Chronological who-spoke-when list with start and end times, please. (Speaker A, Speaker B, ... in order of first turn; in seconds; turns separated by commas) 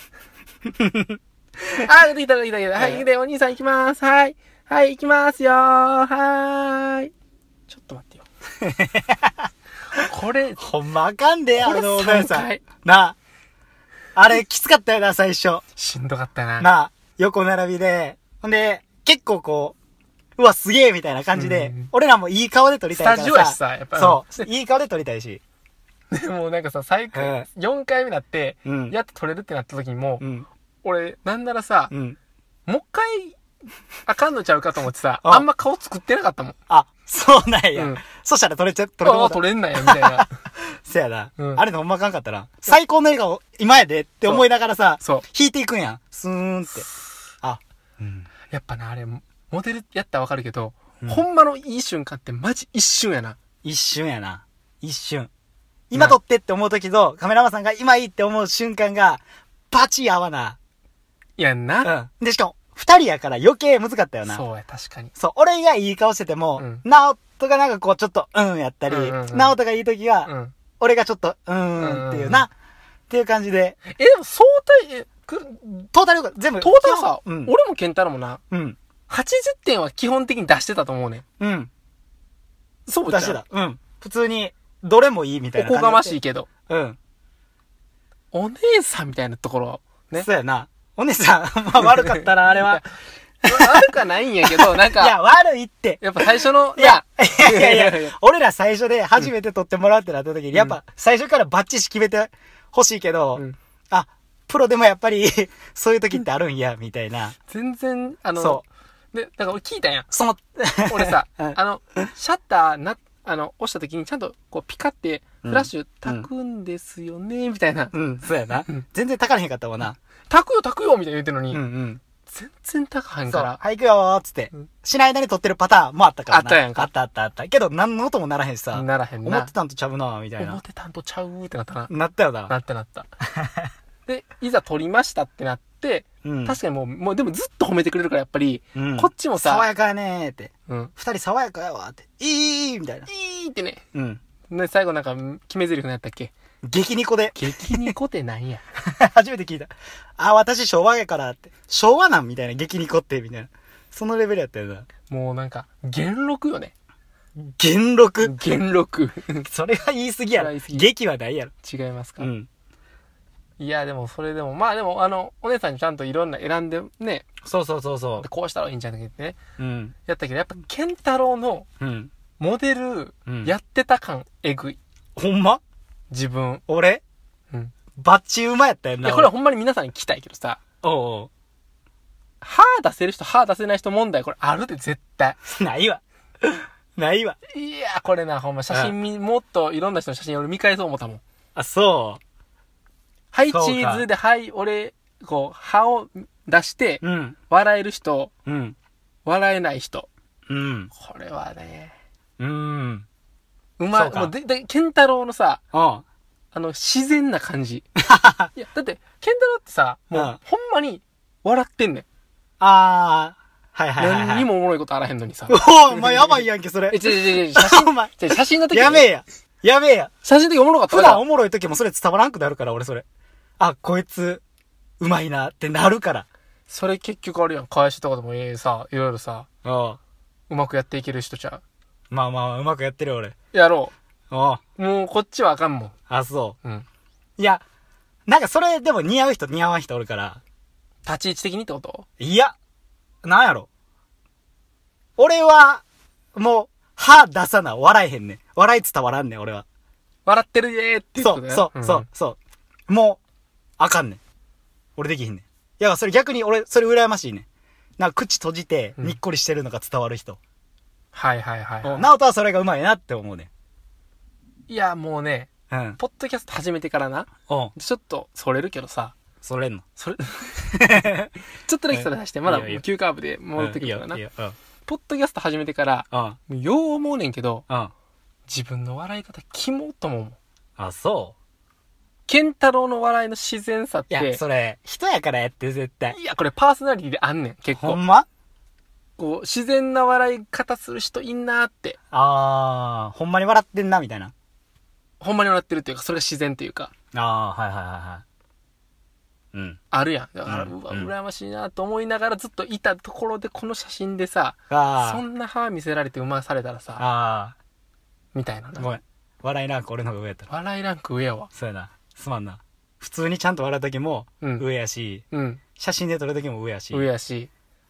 Speaker A: 0.7-1.2, Speaker B: 1.7-7.1, Speaker A: 2.8-3.0, Speaker B: 7.7-8.2, Speaker A: 8.6-9.5, Speaker B: 9.9-10.6, Speaker A: 10.6-13.2, Speaker B: 11.6-12.6, Speaker A: 14.1-15.6, Speaker B: 15.8-16.7, Speaker A: 16.6-19.7, Speaker A: 20.4-25.4, Speaker B: 21.3-21.9, Speaker B: 22.9-24.5, Speaker B: 26.1-30.2, Speaker A: 27.1-27.4, Speaker A: 28.6-28.9, Speaker A: 30.2-30.5, Speaker B: 30.8-31.9, Speaker A: 31.9-32.2, Speaker B: 32.7-33.4, Speaker B: 34.0-36.5, Speaker A: 36.7-46.9, Speaker B: 37.7-38.0, Speaker B: 39.0-40.3, Speaker B: 41.4-41.6, Speaker A: 47.4-48.3, Speaker B: 48.5-53.4, Speaker A: 53.6-55.3, Speaker A: 55.9-60.6, Speaker B: 61.4-61.9, Speaker A: 61.8-64.4, Speaker B: 64.3-65.1, Speaker A: 65.2-72.5, Speaker B: 66.6-66.8, Speaker B: 68.9-69.6, Speaker B: 70.2-70.5, Speaker B: 71.8-72.5, Speaker A: 73.1-73.8, Speaker B: 73.9-75.9, Speaker A: 75.9-77.5, Speaker B: 76.6-78.4, Speaker A: 78.5-78.8, Speaker B: 79.1-81.2, Speaker A: 81.4-81.7, Speaker B: 82.9-83.4, Speaker A: 83.1-86.2, Speaker B: 85.6-86.5, Speaker A: 86.7-87.0, Speaker B: 88.3-90.3, Speaker A: 90.2-92.8, Speaker B: 92.0-92.9, Speaker B: 93.4-95.2, Speaker A: 93.4-93.9, Speaker A: 94.4-107.3, Speaker B: 96.0-98.1, Speaker B: 107.5-110.1, Speaker A: 108.4-108.6, Speaker A: 110.1-112.1, Speaker B: 110.9-117.9, Speaker A: 115.4-116.3, Speaker A: 117.9-120.0, Speaker B: 120.3-121.6, Speaker A: 121.5-122.0, Speaker B: 122.3-123.6, Speaker A: 123.3-130.6, Speaker B: 126.3-126.9, Speaker B: 128.7-129.5, Speaker B: 130.4-131.9, Speaker A: 131.9-132.5, Speaker B: 132.5-133.1, Speaker A: 133.2-133.7, Speaker B: 134.1-139.7, Speaker A: 136.2-136.6, Speaker A: 138.7-143.1, Speaker B: 143.1-143.8, Speaker A: 143.9-144.2, Speaker B: 144.5-146.3, Speaker A: 146.6-147.9, Speaker B: 147.3-148.6, Speaker A: 148.8-154.9, Speaker B: 155.1-156.7, Speaker A: 157.4-158.3, Speaker B: 158.2-159.4, Speaker A: 159.4-161.5, Speaker B: 160.3-160.9, Speaker B: 161.6-162.3, Speaker A: 162.2-162.5, Speaker B: 163.6-167.3, Speaker A: 167.4-168.2, Speaker B: 168.2-169.4, Speaker A: 169.6-169.9, Speaker B: 170.1-171.7, Speaker A: 171.8-172.1, Speaker B: 172.4-174.8, Speaker A: 173.3-173.5, Speaker A: 175.2-175.6, Speaker B: 176.1-176.6, Speaker A: 176.7-177.0, Speaker A: 178.0-179.3, Speaker B: 179.0-180.6, Speaker A: 180.8-181.3, Speaker B: 182.4-185.4, Speaker A: 185.4-187.4, Speaker B: 187.5-191.2, Speaker A: 191.6-192.2, Speaker B: 193.3-198.3, Speaker A: 193.5-194.1, Speaker A: 197.0-197.4, Speaker A: 198.4-198.8, Speaker B: 199.2-200.1, Speaker A: 200.5-200.9, Speaker B: 200.9-201.9, Speaker A: 202.4-203.1, Speaker B: 203.8-205.6, Speaker A: 203.9-204.3, Speaker A: 205.7-206.0, Speaker B: 206.5-207.9, Speaker A: 208.0-208.5, Speaker B: 208.5-212.1, Speaker A: 212.6-214.5, Speaker B: 214.0-219.1, Speaker A: 215.5-220.1, Speaker B: 220.2-221.2, Speaker A: 220.9-223.0, Speaker A: 223.6-224.4, Speaker A: 225.0-226.2, Speaker B: 226.7-229.5, Speaker A: 229.6-230.0, Speaker B: 230.5-231.6, Speaker A: 232.1-233.3, Speaker B: 233.5-233.9, Speaker A: 234.3-234.6, Speaker B: 234.8-235.9, Speaker A: 236.1-236.6, Speaker A: 237.4-237.6, Speaker A: 238.3-240.4, Speaker B: 241.0-242.1, Speaker A: 242.2-242.5, Speaker A: 243.2-243.7, Speaker A: 245.2-245.8, Speaker A: 246.3-249.6, Speaker B: 250.2-252.1, Speaker A: 251.2-253.2, Speaker A: 253.8-254.2, Speaker A: 255.0-257.4, Speaker A: 258.0-260.4, Speaker B: 261.1-262.1, Speaker A: 261.8-263.5, Speaker B: 264.7-269.1, Speaker A: 265.7-266.0, Speaker A: 267.5-267.7, Speaker A: 269.4-269.8, Speaker B: 270.0-270.7, Speaker A: 270.7-271.3, Speaker B: 271.6-274.2, Speaker A: 271.9-272.8, Speaker A: 273.6-274.5, Speaker B: 274.9-277.6, Speaker A: 276.1-276.4, Speaker B: 278.5-280.4, Speaker A: 280.8-281.3, Speaker B: 282.3-284.4, Speaker A: 284.1-286.2, Speaker B: 286.1-288.0, Speaker A: 287.8-288.3, Speaker B: 289.2-292.0, Speaker A: 292.1-294.3, Speaker B: 295.2-296.9, Speaker A: 297.1-298.2, Speaker A: 299.5-299.8, Speaker B: 299.9-307.0, Speaker A: 300.5-301.1, Speaker A: 304.7-305.2, Speaker A: 307.0-307.6, Speaker B: 308.3-308.9, Speaker A: 308.8-310.5, Speaker B: 310.5-311.5, Speaker A: 311.5-315.2, Speaker B: 314.4-314.6, Speaker B: 315.3-315.6, Speaker A: 315.8-317.1, Speaker B: 316.9-317.5